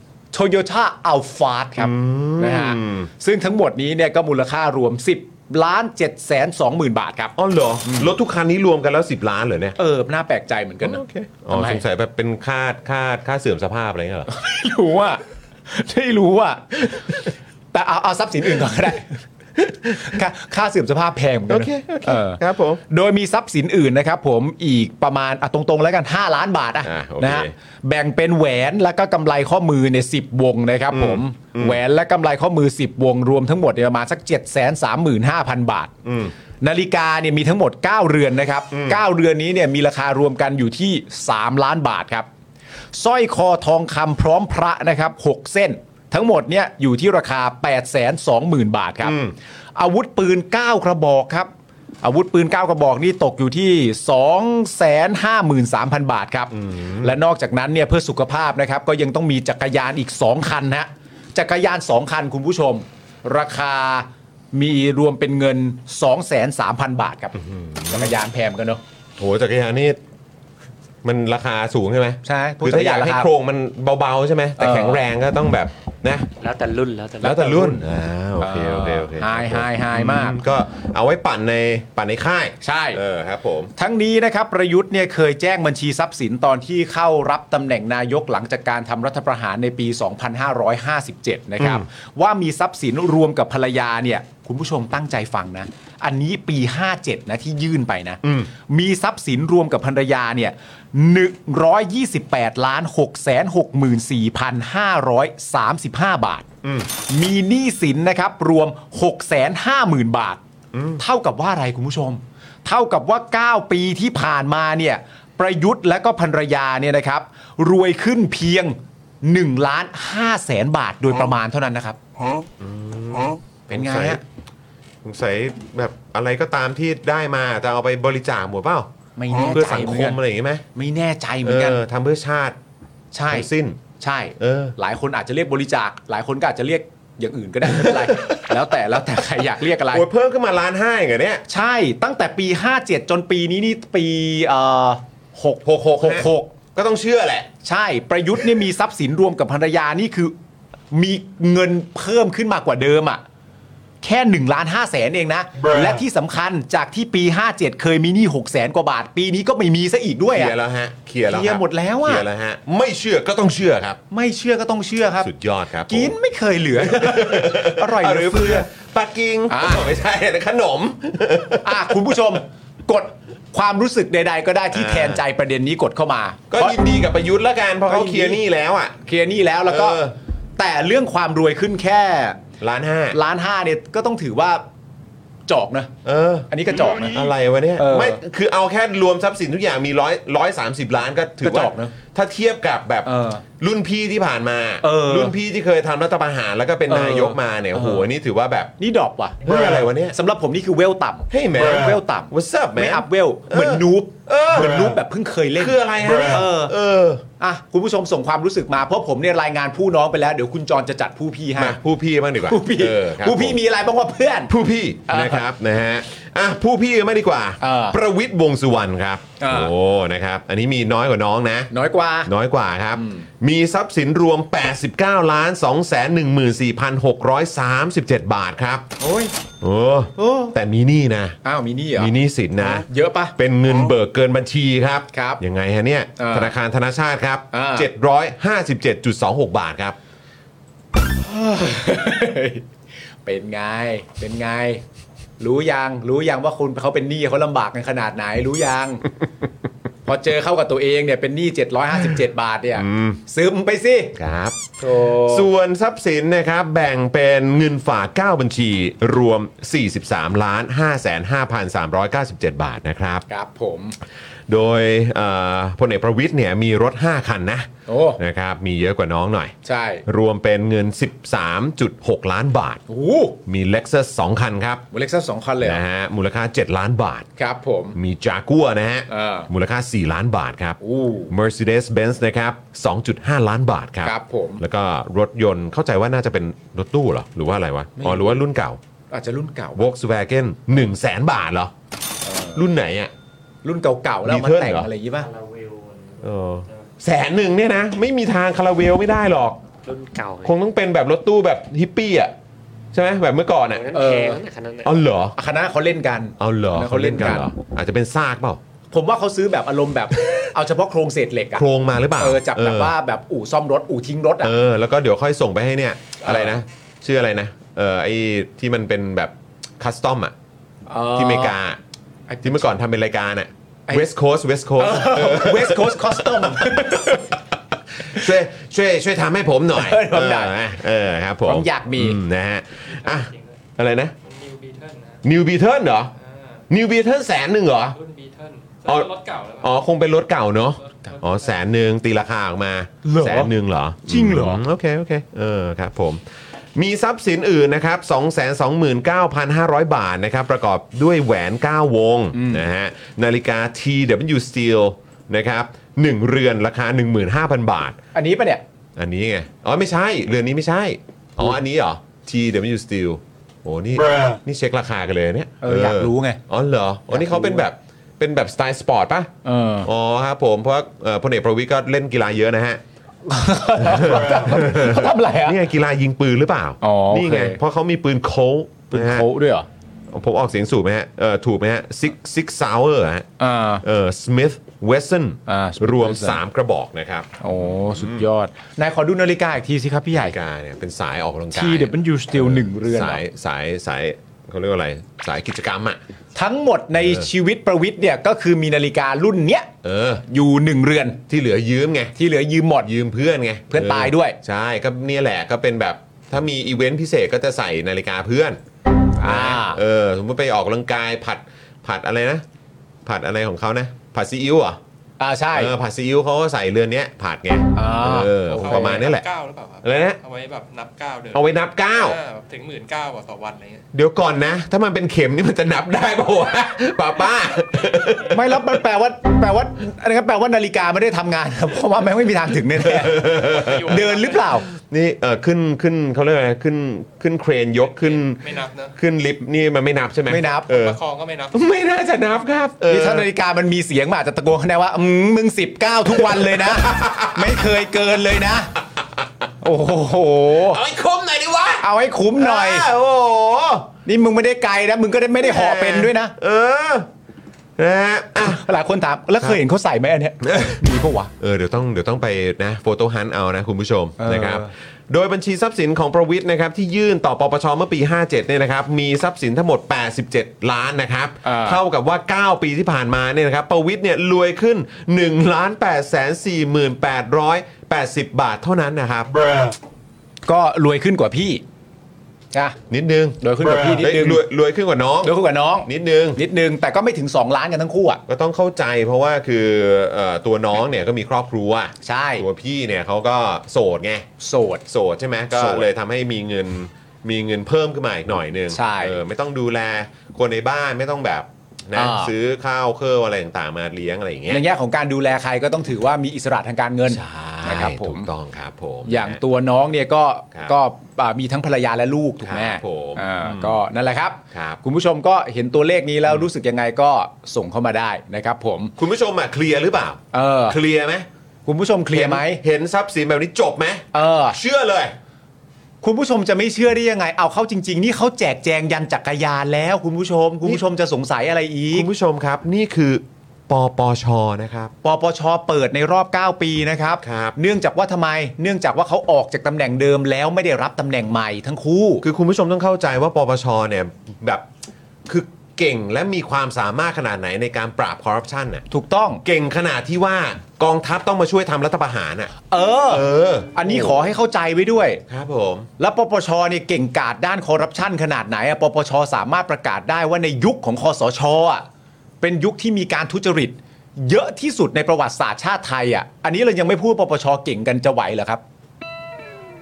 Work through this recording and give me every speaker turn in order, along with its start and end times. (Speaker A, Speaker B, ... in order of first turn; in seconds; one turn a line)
Speaker A: 0.3-8.1
Speaker B: 1.8-3.1
Speaker B: 7.4-9.8
Speaker A: 9.8-11.8
Speaker B: 10.8-14.3
Speaker A: 14.3-17.2
Speaker A: 17.7-19.2
Speaker B: 19.6-20.1
Speaker A: 20.0-35.9
Speaker B: 21.5-22.8
Speaker B: 26.8-27.5
Speaker B: 30.9-31.8
Speaker B: 36.0-36.3
Speaker A: 36.6-42.3
Speaker B: 38.7-39.0
Speaker A: 43.0-49.2
Speaker B: 49.0-49.3
Speaker A: 49.8-51.5
Speaker A: 52.0-68.8
Speaker B: 56.5-57.1
Speaker B: 67.4-68.1
Speaker B: 69.2-70.0
Speaker B: 71.0-76.3
Speaker A: 72.2-73.3
Speaker A: 74.6-75.0
Speaker C: 76.4-77.4
Speaker B: 77.2-83.7
Speaker A: 77.2-77.8
Speaker A: 78.4-80.4
Speaker A: 82.6-83.0
Speaker A: 83.8-106.5
Speaker B: 91.6-91.8
Speaker B: 98.2-98.5
Speaker A: 107.1-110.4
Speaker B: 110.7-111.0
Speaker A: 111.0-122.0
Speaker B: 122.6-124.2
Speaker A: 123.7-124.2
Speaker B: 125.0-128.9
Speaker A: 129.2-130.2
Speaker B: 129.5-130.6
Speaker A: 130.7-131.8
Speaker B: 131.4-132.6
Speaker A: 133.1-133.5
Speaker B: 133.3-133.8
Speaker A: 134.0-140.1
Speaker B: 134.4-134.8
Speaker B: 137.7-138.6
Speaker B: 139.8-141.4
Speaker A: 141.5-146.5
Speaker B: 145.7-147.5
Speaker A: 147.6-150.3
Speaker A: 150.9-153.2
Speaker A: 154.0-160.6
Speaker B: 160.3-164.0
Speaker A: 161.3-162.3
Speaker A: 164.1-165.3
Speaker B: 165.2-166.2
Speaker A: 165.9-168.7
Speaker B: 166.8-172.4
Speaker A: 169.5-169.9
Speaker A: 171.6-176.8
Speaker B: 174.7-175.2
Speaker B: 176.5-179.0
Speaker A: 177.9-178.4
Speaker A: 179.0-180.0
Speaker B: 179.7-180.2
Speaker A: 180.6-182.4
Speaker B: 182.6-183.2
Speaker A: 183.1-184.7
Speaker A: 185.5-185.9
Speaker B: 186.0-198.7
Speaker A: 186.5-187.2
Speaker A: 187.8-188.2
Speaker A: 191.4-191.9
Speaker A: 193.1-193.4
Speaker A: 194.8-195.3
Speaker A: 196.9-198.0
Speaker A: 198.8-199.4
Speaker B: 199.4-200.2
Speaker A: 200.1-206.7
Speaker B: 201.3-205.0
Speaker B: 205.6-207.2
Speaker A: 207.4-211.8
Speaker B: 211.6-213.6
Speaker A: 212.5-214.5
Speaker B: 214.5-221.7
Speaker A: 215.1-215.5
Speaker A: 217.6-218.0
Speaker A: 219.4-219.7
Speaker A: 221.7-222.3
Speaker B: 222.2-228.9
Speaker A: 222.9-223.2
Speaker A: 229.0-229.3
Speaker B: 229.6-231.4
Speaker A: 230.2-230.6
Speaker A: 231.4-232.1
Speaker B: 232.0-240.0
Speaker A: 232.7-233.3
Speaker A: 235.1-235.4
Speaker A: 236.2-236.5
Speaker A: 237.5-237.9
Speaker A: 241.2-242.7
Speaker A: 243.2-244.8
Speaker A: 245.4-249.0
Speaker A: 250.1-254.2
Speaker B: 252.8-253.2
Speaker B: 254.2-263.2
Speaker A: 254.8-255.5
Speaker A: 263.3-263.9
Speaker B: 264.5-269.6
Speaker A: 267.9-268.2
Speaker A: 269.6-270.0
Speaker B: 270.1-272.8
Speaker A: 272.9-273.4
Speaker B: 273.5-274.9
Speaker A: 274.9-275.8
Speaker B: 275.6-277.3
Speaker A: 277.4-278.0
Speaker B: 277.9-288.8
Speaker A: 279.1-279.5
Speaker A: 280.8-281.3
Speaker A: 284.0-284.6
Speaker A: 288.0-288.4
Speaker A: 289.1-289.9
Speaker B: 289.8-291.7
Speaker A: 292.2-292.7
Speaker B: 292.5-293.1
Speaker A: 293.6-295.3
Speaker B: 294.3-294.9
Speaker C: 295.2-296.8
Speaker B: 296.2-299.6
Speaker C: 299.9-300.5
Speaker B: 300.4-302.4
Speaker B: 302.9-304.0
Speaker C: 303.9-304.9
Speaker A: 303.9-304.4
Speaker B: 304.8-305.4
Speaker A: 305.4-307.5
Speaker B: 306.4-308.6
Speaker A: 308.9-311.7
Speaker B: 311.6-313.0
Speaker A: 312.2-314.5
Speaker B: 314.4-320.3
Speaker A: 316.2-316.6
Speaker A: 320.9-321.6
Speaker B: 321.1-321.8
Speaker A: 322.3-322.7
Speaker B: 322.4-327.2
Speaker A: 324.8-327.4
Speaker B: 328.0-334.1
Speaker A: 329.7-330.6
Speaker A: 331.5-332.2
Speaker D: 332.8-333.6
Speaker D: 334.2-335.2
Speaker B: 335.2-336.1
Speaker D: 336.1-336.6
Speaker B: 336.7-338.0
Speaker D: 337.9-339.7
Speaker B: 339.6-346.2
Speaker D: 340.8-341.6
Speaker A: 343.0-343.5
Speaker A: 344.0-344.6
Speaker B: 346.8-358.0
Speaker A: 352.3-352.6
Speaker A: 358.1-358.6
Speaker B: 359.0-369.3
Speaker A: 365.6-366.4
Speaker A: 367.1-367.6
Speaker A: 369.4-369.9
Speaker B: 369.8-372.8
Speaker A: 373.3-375.6
Speaker B: 373.8-379.3
Speaker A: 376.8-377.6
Speaker A: 378.9-379.7
Speaker B: 380.1-383.3
Speaker A: 383.4-383.8
Speaker B: 383.8-388.3
Speaker A: 385.5-386.4
Speaker A: 387.4-390.4
Speaker B: 390.1-396.0
Speaker A: 391.5-393.2
Speaker A: 396.4-399.7
Speaker B: 397.0-397.3
Speaker B: 399.8-400.2
Speaker A: 400.3-401.2
Speaker B: 401.3-402.1
Speaker A: 402.2-402.9
Speaker B: 402.8-408.6
Speaker A: 403.7-404.4
Speaker A: 409.2-409.8
Speaker B: 409.2-412.4
Speaker B: 413.1-414.8
Speaker A: 415.2-415.7
Speaker B: 415.5-419.3
Speaker A: 417.8-419.1
Speaker D: 418.6-423.8
Speaker B: 419.8-420.2
Speaker B: 421.3-422.2
Speaker B: 423.9-428.8
Speaker A: 428.3-433.3
Speaker B: 432.7-434.1
Speaker D: 433.3-434.6
Speaker A: 433.9-434.7
Speaker B: 434.7-441.0
Speaker D: 437.8-438.9
Speaker A: 440.3-440.7
Speaker D: 440.7-441.6
Speaker B: 441.5-443.3
Speaker A: 442.9-448.7
Speaker B: 446.2-447.6
Speaker A: 449.6-450.8
Speaker B: 450.5-453.9
Speaker A: 451.8-452.9
Speaker A: 454.1-456.3
Speaker B: 455.4-457.1
Speaker B: 457.8-458.6
Speaker A: 458.4-461.3
Speaker B: 460.5-460.8
Speaker B: 461.4-479.6
Speaker A: 464.2-464.7
Speaker A: 471.4-471.8
Speaker A: 480.5-481.6
Speaker B: 482.9-486.4
Speaker A: 483.4-484.4
Speaker A: 485.2-488.2
Speaker B: 488.3-494.3
Speaker A: 492.0-492.4
Speaker A: 494.4-494.8
Speaker B: 494.9-504.6
Speaker A: 495.5-495.9
Speaker A: 498.7-499.2
Speaker A: 501.9-502.3
Speaker A: 504.5-508.3
Speaker B: 507.1-509.4
Speaker A: 509.1-519.0
Speaker B: 512.4-513.8
Speaker B: 514.5-514.8
Speaker B: 519.0-521.3
Speaker A: 520.3-520.8
Speaker A: 521.7-522.6
Speaker B: 522.1-525.1
Speaker A: 524.1-524.6
Speaker A: 526.0-532.1
Speaker B: 531.9-534.9
Speaker A: 535.0-542.2
Speaker B: 537.2-537.6
Speaker B: 542.2-544.6
Speaker B: 545.3-548.9
Speaker A: 548.9-549.4
Speaker B: 549.4-552.5
Speaker A: 552.7-555.2
Speaker B: 553.1-554.2
Speaker B: 555.3-555.9
Speaker A: 556.0-561.9
Speaker A: 562.4-568.6